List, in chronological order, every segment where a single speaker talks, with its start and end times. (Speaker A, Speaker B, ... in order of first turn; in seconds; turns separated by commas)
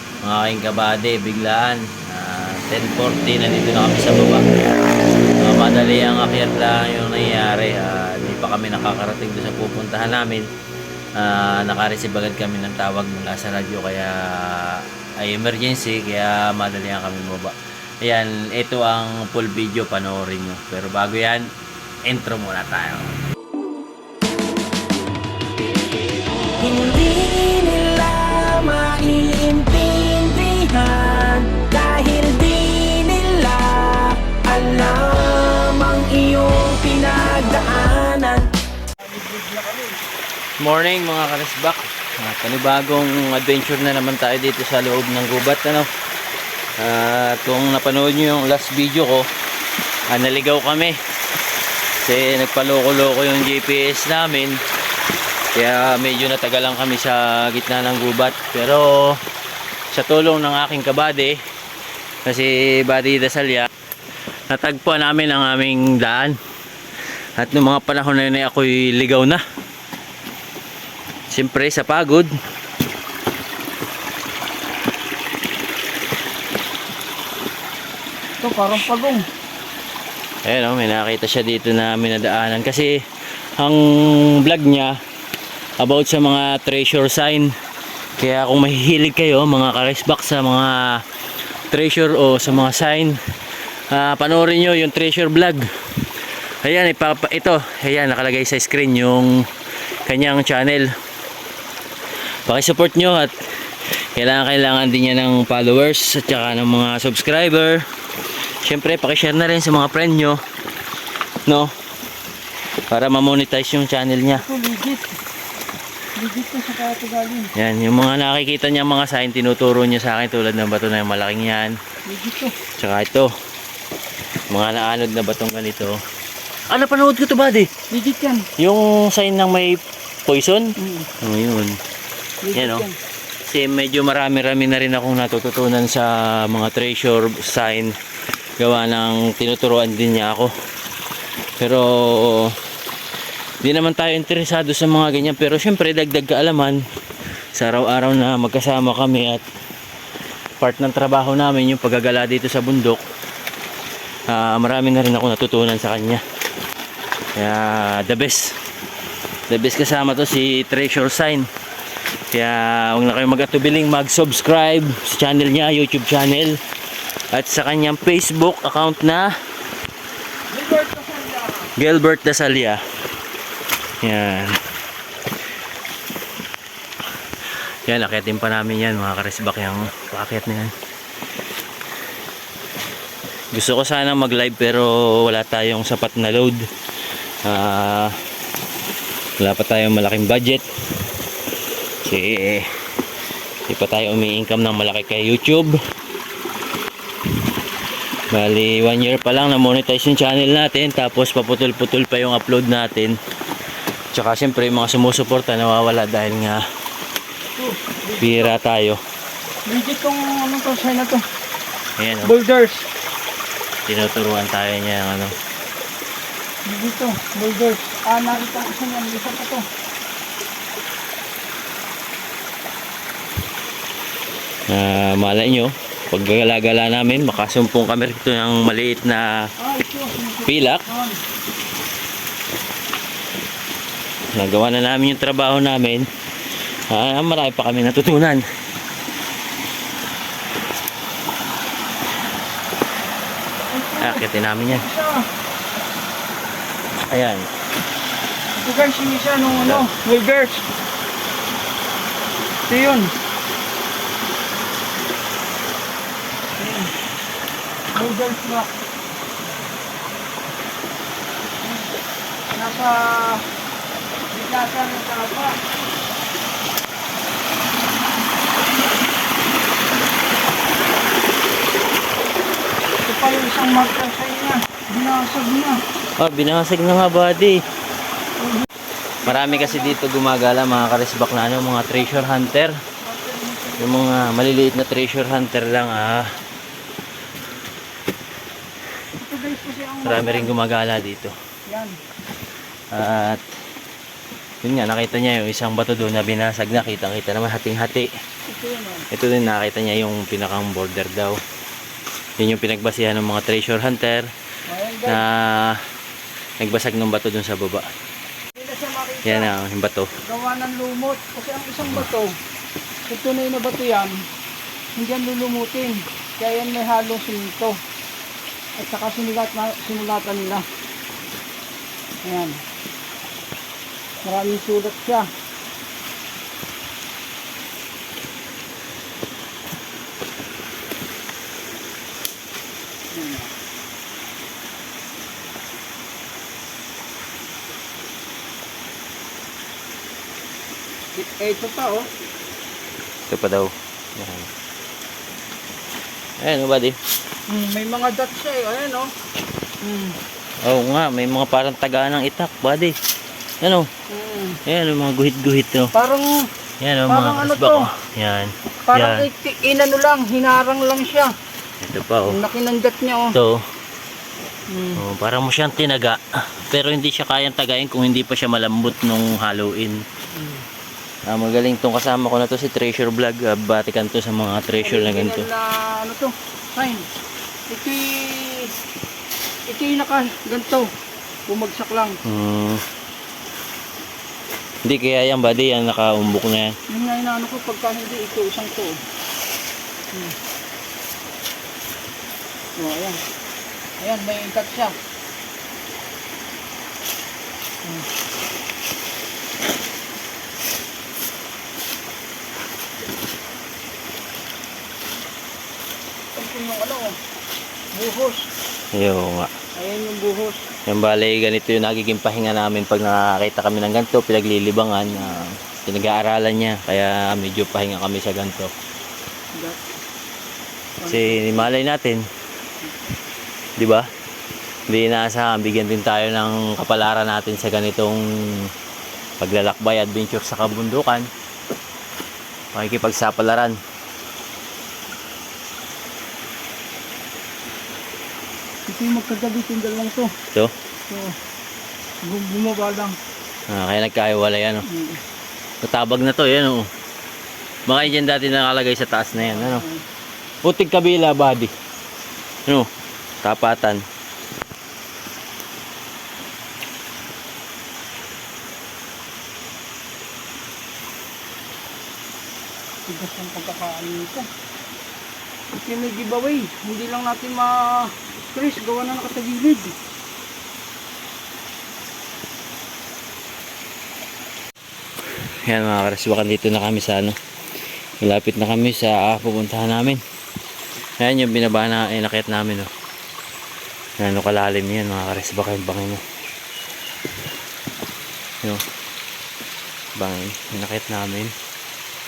Speaker A: 0.2-4.5, Speaker A: 5.4-10.4, Speaker A: 11.2-21.5, Speaker A: 22.1-23.2, Speaker B: 26.7-33.5, Speaker A: 28.4-38.5, Speaker C: 39.0-40.0, Speaker A: 40.6-45.9, Speaker A: 46.8-49.3, Speaker A: 50.1-51.0, Speaker A: 52.0-54.6, Speaker A: 55.5-59.2, Speaker A: 59.9-61.4, Speaker A: 62.2-63.7, Speaker A: 64.5-66.3, Speaker A: 67.4-69.4, Speaker A: 71.3-72.3, Speaker C: 78.4-79.2, Speaker A: 80.5-82.9, Speaker A: 83.6-85.0, Speaker A: 85.8-87.5, Speaker A: 88.2-91.0, Speaker A: 91.7-93.2, Speaker A: 93.9-99.3, Speaker A: 100.1-100.9, Speaker A: 102.5-103.3, Speaker A: 104.1-107.8, Speaker A: 108.6-110.4, Speaker A: 111.5-111.7, Speaker A: 112.9-114.5, Speaker C: 114.3-115.1, Speaker C: 116.2-117.5, Speaker A: 117.5-121.8, Speaker C: 122.1-122.6, Speaker A: 122.8-123.3, Speaker A: 124.5-126.0, Speaker A: 126.7-127.7, Speaker C: 127.9-128.5, Speaker A: 128.6-130.7, Speaker C: 130.8-131.1, Speaker A: 131.2-131.8, Speaker C: 132.4-133.0, Speaker A: 132.5-132.9, Speaker A: 133.5-137.9, Speaker A: 138.6-140.5, Speaker A: 141.6-142.5, Speaker A: 143.6-146.8, Speaker A: 147.6-149.4, Speaker A: 150.6-153.0, Speaker A: 154.3-156.2, Speaker A: 157.4-158.6, Speaker A: 159.5-161.5, Speaker A: 162.3-166.6, Speaker A: 167.3-169.3, Speaker C: 170.5-171.7, Speaker A: 171.8-172.8, Speaker A: 174.0-174.5, Speaker A: 177.9-180.7, Speaker A: 183.5-186.6, Speaker A: 187.4-188.1, Speaker A: 189.4-190.6, Speaker A: 192.0-192.7, Speaker A: 193.7-195.8, Speaker A: 198.3-203.2, Speaker A: 204.1-206.6, Speaker C: 207.6-208.6, Speaker A: 208.2-209.0, Speaker C: 209.7-211.2, Speaker A: 212.0-212.3, Speaker C: 212.2-212.9, Speaker A: 213.9-215.3, Speaker C: 216.7-219.7, Speaker A: 224.7-229.2, Speaker C: 229.6-231.2, Speaker A: 230.5-230.9, Speaker A: 234.3-236.1, Speaker A: 236.9-238.4, Speaker C: 243.7-245.3, Speaker A: 244.0-244.9, Speaker A: 247.1-247.5, Speaker C: 248.6-250.7, Speaker A: 249.5-249.9, Speaker C: 252.7-253.1, Speaker C: 256.6-256.9, Speaker C: 257.9-258.7, Speaker C: 262.6-263.4, Speaker C: 264.3-265.6, Speaker C: 273.1-275.8, Speaker A: 276.2-277.6, Speaker C: 278.4-278.7, Speaker C: 279.2-280.0, Speaker A: 279.2-282.7, Speaker C: 283.0-284.1, Speaker A: 283.8-286.2, Speaker C: 289.2-290.5, Speaker A: 290.0-291.3, Speaker C: 291.7-291.9, Speaker A: 292.9-293.4, Speaker A: 294.6-298.1, Speaker C: 298.5-299.1, Speaker A: 299.1-301.4, Speaker A: 302.4-304.3, Speaker C: 304.7-305.2, Speaker A: 305.1-305.8, Speaker A: 306.6-307.9, Speaker C: 308.6-309.5, Speaker A: 309.2-310.1, Speaker C: 310.2-312.4, Speaker C: 313.1-314.2, Speaker C: 314.9-317.8, Speaker C: 318.8-320.6, Speaker C: 322.2-322.6, Speaker C: 324.2-325.3, Speaker C: 333.1-333.5, Speaker C: 341.1-342.1, Speaker A: 343.3-344.5, Speaker A: 346.4-347.0, Speaker C: 347.5-349.1, Speaker C: 349.8-350.2, Speaker A: 350.6-352.9, Speaker A: 353.6-353.9, Speaker C: 354.1-354.6, Speaker A: 354.7-355.9, Speaker C: 355.9-356.3, Speaker A: 356.8-359.3, Speaker C: 357.1-357.9, Speaker C: 358.9-361.3, Speaker A: 361.8-362.4, Speaker C: 362.3-363.4, Speaker A: 363.4-363.6, Speaker C: 364.7-365.0, Speaker A: 365.0-370.0, Speaker A: 371.3-375.5, Speaker C: 374.8-377.1, Speaker C: 377.7-378.7, Speaker C: 379.7-380.9, Speaker C: 381.5-382.2, Speaker A: 382.3-382.8, Speaker A: 384.9-386.7, Speaker C: 386.9-389.0, Speaker C: 392.8-393.2, Speaker C: 394.0-394.9, Speaker C: 406.4-407.1, Speaker C: 407.9-408.5, Speaker A: 408.9-409.5, Speaker C: 409.8-410.7, Speaker A: 410.9-418.7, Speaker C: 421.0-421.7, Speaker A: 421.1-422.2, Speaker A: 423.8-424.1, Speaker A: 424.9-428.7, Speaker A: 429.4-431.3, Speaker A: 432.7-433.8, Speaker C: 438.9-440.3, Speaker C: 441.1-441.4, Speaker C: 442.2-443.2, Speaker A: 443.7-444.9, Speaker C: 444.9-445.2, Speaker A: 445.8-446.9, Speaker A: 447.9-449.8, Speaker C: 449.4-450.0, Speaker A: 450.6-451.7, Speaker A: 453.4-454.0, Speaker C: 463.1-464.5, Speaker C: 465.8-469.9, Speaker A: 475.7-477.4, Speaker A: 478.2-480.2, Speaker A: 481.2-482.9, Speaker A: 484.2-486.2, Speaker A: 490.2-491.5